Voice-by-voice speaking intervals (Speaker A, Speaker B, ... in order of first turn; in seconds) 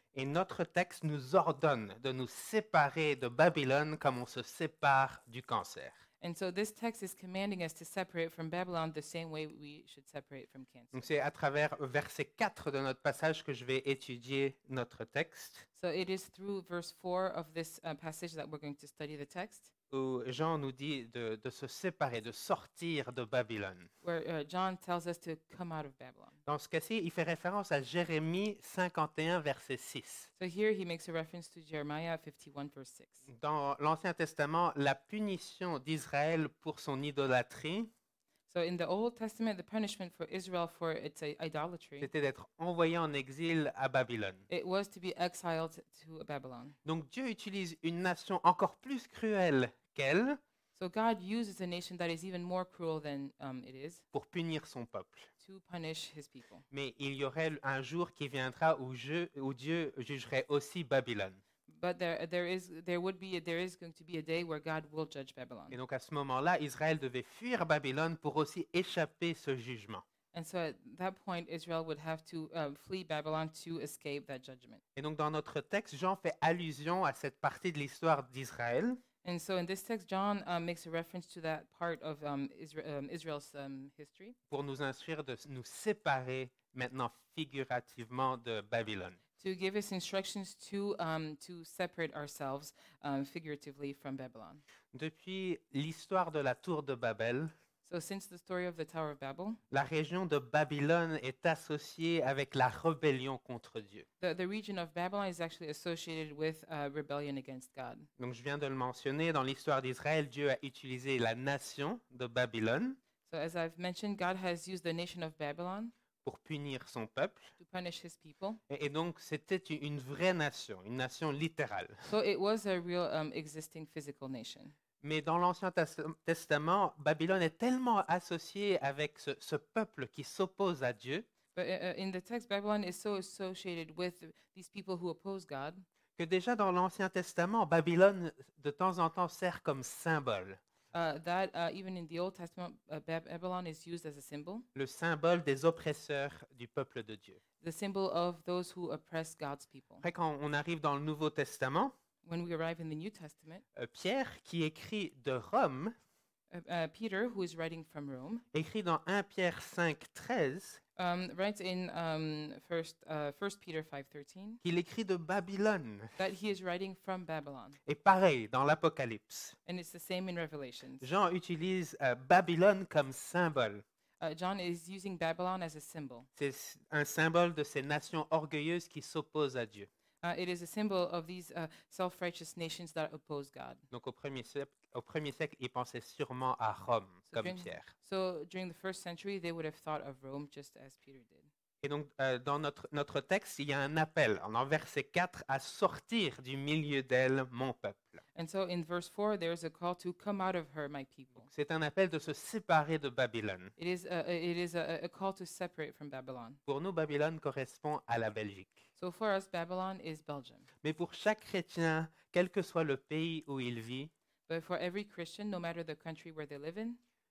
Speaker A: 0.1-6.0, 10.9-15.7, 19.9-23.9, 26.5-30.3, 33.3-37.9, 42.0-44.5, 46.9-50.4, 54.1-55.3, 56.7-61.4, 65.7-70.0, 75.0-79.0, 84.5-89.2, 94.9-97.5, 99.7-104.0, 108.2-113.0, 116.2-117.5, 118.7-122.1, 125.0-131.2, 136.2-140.6, 144.8-147.4, 150.0-151.9, 153.8-155.9, 158.5-160.8, 164.6-166.2, 167.9-169.6, 171.0-173.8, 176.4-179.9, 183.9-187.9, 191.8-198.2, 201.4-203.7, 206.7-208.8, 210.8-214.1
Speaker B: 6.2-11.0, 15.8-19.7, 24.0-26.4, 30.4-33.2, 38.5-42.1, 44.5-46.8, 50.8-54.0, 55.4-56.6, 61.7-65.8, 70.3-74.8, 79.2-84.4, 89.4-94.6, 97.8-99.6, 104.2-108.1, 113.2-115.9, 117.6-118.6, 122.0-124.8, 131.5-135.8, 140.9-144.6, 147.6-150.0, 152.2-153.6, 156.5-158.4, 161.0-164.6, 166.2-167.8, 169.6-171.1, 174.2-176.3, 180.2-183.8, 187.3-191.5, 198.3-201.5, 203.8-206.6, 209.0-210.7, 214.5-217.0